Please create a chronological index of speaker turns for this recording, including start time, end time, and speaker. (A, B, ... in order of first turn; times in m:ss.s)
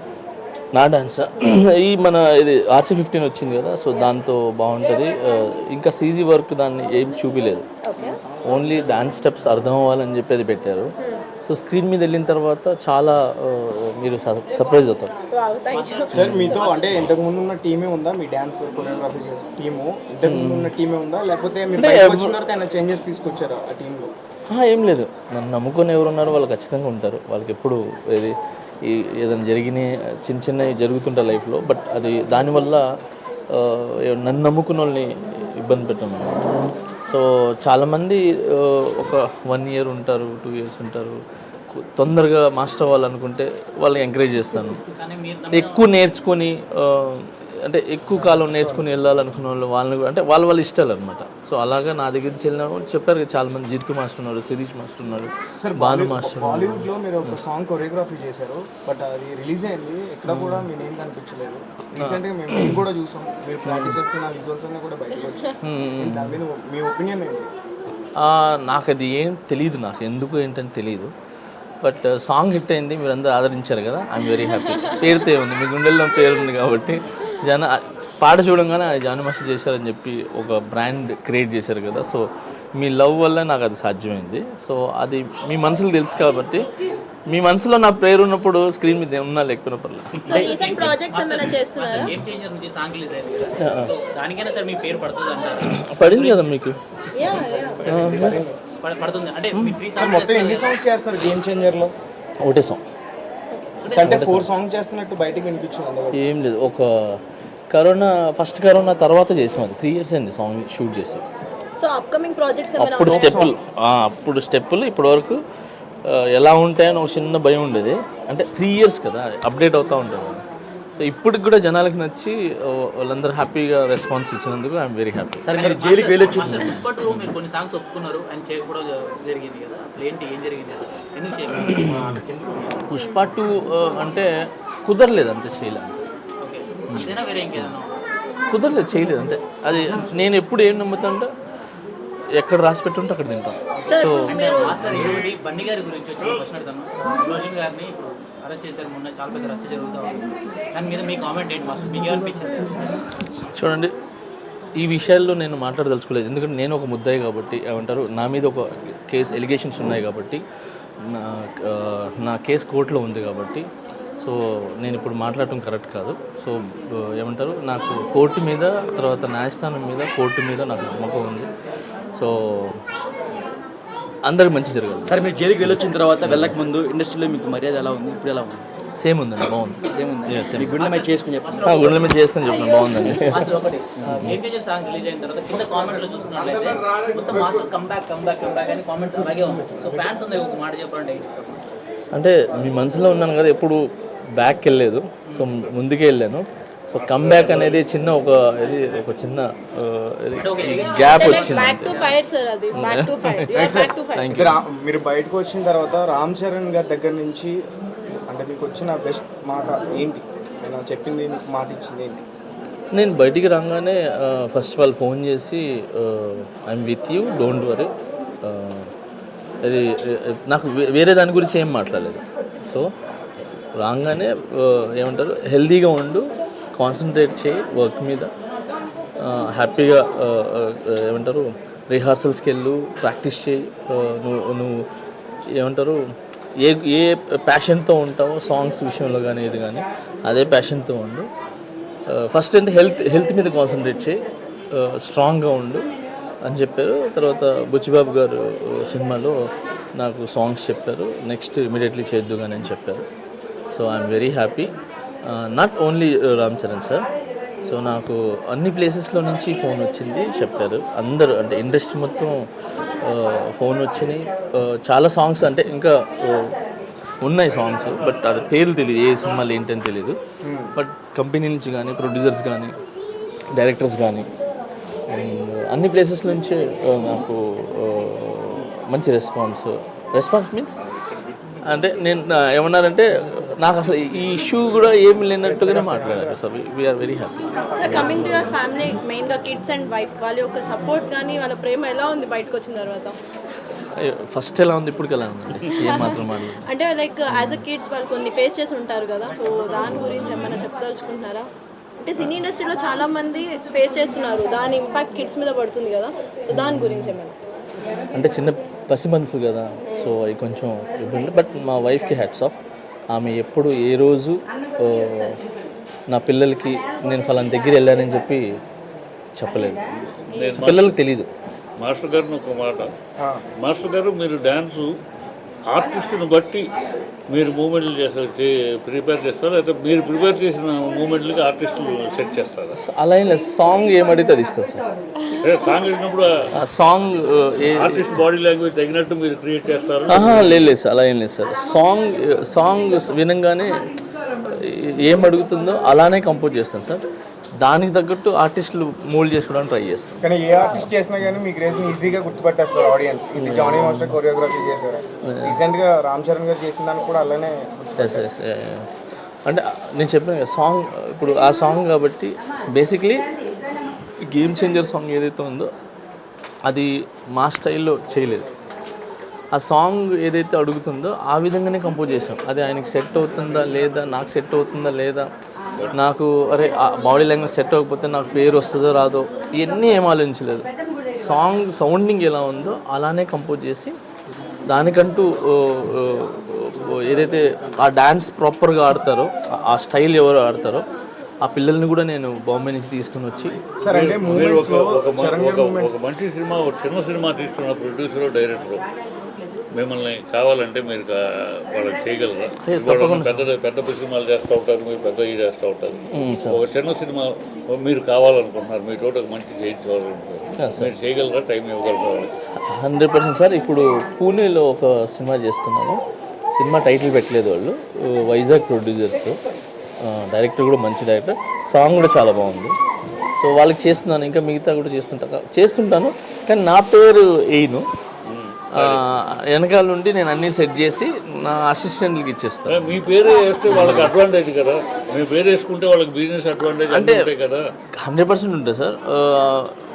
0:00.7-0:07.6 A
0:07.8-0:08.2 B
0:08.5-0:10.9 A
0:11.0-0:11.2 B
0:11.4-0:15.1 A
0:15.3-0:16.1 B
0:15.7-0:17.0 C
0:16.1-0:24.1 D
0:16.1-0:16.5 A
0:20.2-0:20.7 A
0:21.8-0:22.4 A
0:24.5-0:32.8 A
0:33.5-0:36.4 A
0:37.0-0:41.2 A
0:41.7-0:44.8 A
0:44.9-0:45.9 C
0:45.5-0:57.3 A
0:48.3-0:48.8 D
0:55.6-1:07.5 D
1:00.3-1:00.6 A
1:02.0-1:02.8 A
1:03.7-1:04.0 A
1:05.6-1:06.4 A
1:08.2-1:11.1 A
1:11.8-1:26.6 A
1:27.3-1:30.2 A
1:30.3-1:31.0 E
1:30.3-1:32.1 B
1:30.3-1:36.5 C
1:33.6-1:33.9 A
1:35.7-1:36.8 A
1:37.2-1:38.0 B
1:37.4-1:38.6 D
1:37.8-1:38.4 A
1:38.8-1:40.8 C
1:39.9-1:41.9 D
1:42.4-1:42.8 A
1:43.5-1:43.8 B
1:43.8-1:44.2 C
1:43.9-1:46.2 D
1:44.0-1:44.5 A
1:46.1-1:51.2 A
1:51.8-1:53.4 B
1:52.8-1:55.4 A
1:53.1-1:53.5 D
1:56.0-2:00.4 A
2:01.0-2:05.4 A
2:05.4-2:06.8 E
2:05.5-2:12.8 C
2:11.7-2:12.0 A
2:12.9-2:14.3 A
2:13.0-2:13.2 B
2:14.8-2:16.0 A
2:16.4-2:17.9 C
2:16.9-2:17.7 A
2:18.5-2:21.3 A
2:22.4-2:25.2 A
2:23.8-2:32.9 C
2:23.9-2:24.8 B
2:33.2-2:33.9 A
2:34.8-2:40.4 A
2:41.0-2:43.6 A
2:44.2-2:51.5 A
2:52.1-2:52.8 A
2:54.2-2:56.6 A
2:55.1-2:58.7 E
2:59.0-3:00.7 A
2:59.8-3:01.9 E
3:00.7-3:02.1 C
3:01.6-3:03.5 A
3:02.8-3:11.6 C
3:04.0-3:04.2 E
3:12.1-3:13.8 A
3:14.3-3:22.0 A
3:17.0-3:17.8 F
3:20.4-3:22.2 C
3:20.9-3:24.3 B
3:22.7-3:23.6 A
3:23.5-3:27.6 D
3:24.1-3:24.6 A
3:28.3-3:32.2 D
3:32.9-3:37.9 A
3:38.4-3:38.9 A
3:39.6-3:42.9 A
3:43.8-3:48.3 A
3:49.2-3:54.8 A
3:55.6-3:56.0 A
3:56.6-4:01.3 A
4:02.1-4:04.1 A
4:04.7-4:05.9 A
4:06.4-4:09.3 A
4:10.0-4:13.0 A
4:13.7-4:14.7 A
4:15.3-4:17.0 A
4:17.6-4:22.3 A
4:23.0-4:26.5 A
4:27.2-4:30.2 A
4:30.4-4:30.8 D
4:30.7-4:32.7 A
4:33.5-4:34.3 A
4:35.1-4:40.7 A
4:41.6-4:48.6 A
4:45.5-4:46.4 D
4:47.7-4:53.2 B
4:54.0-4:56.6 A
4:55.8-5:01.5 B
4:57.3-4:57.6 A
4:59.9-5:00.6 A
5:02.0-5:07.3 B
5:06.5-5:07.2 A
5:08.1-5:12.6 A
5:09.8-5:10.1 B
5:13.1-5:15.4 A
5:16.1-5:18.5 A
5:19.4-5:19.8 A
5:20.3-5:20.9 F
5:20.6-5:21.3 A
5:21.8-5:22.9 F
5:23.2-5:23.4 D
5:23.6-5:24.9 F
5:25.7-5:26.7 F
5:27.3-5:32.7 F
5:32.9-5:34.8 A
5:35.4-5:36.3 F
5:36.6-5:38.1 A
5:37.6-5:40.3 F
5:40.1-5:43.9 A
5:44.4-5:47.0 A
5:47.6-5:50.2 A
5:50.2-5:58.2 D
5:53.4-5:54.2 A
5:55.3-5:55.5 A
5:58.0-5:58.9 A
5:59.4-6:03.2 A
6:04.2-6:05.7 A
6:06.7-6:08.5 A
6:09.5-6:15.3 A
6:15.9-6:23.9 A
6:24.7-6:30.8 A
6:31.4-6:33.6 A
6:33.8-6:35.9 D
6:33.9-6:38.8 F
6:39.8-6:52.3 F
6:42.6-6:43.4 A
6:46.1-6:46.6 A
6:50.6-6:50.9 A
6:52.6-6:56.0 A
6:56.5-6:59.4 A
7:00.0-7:02.7 A
7:03.4-7:07.8 A
7:08.3-7:09.0 F
7:08.8-7:13.0 A
7:12.7-7:17.6 F
7:13.7-7:14.1 A
7:16.9-7:17.2 A
7:18.0-7:19.7 A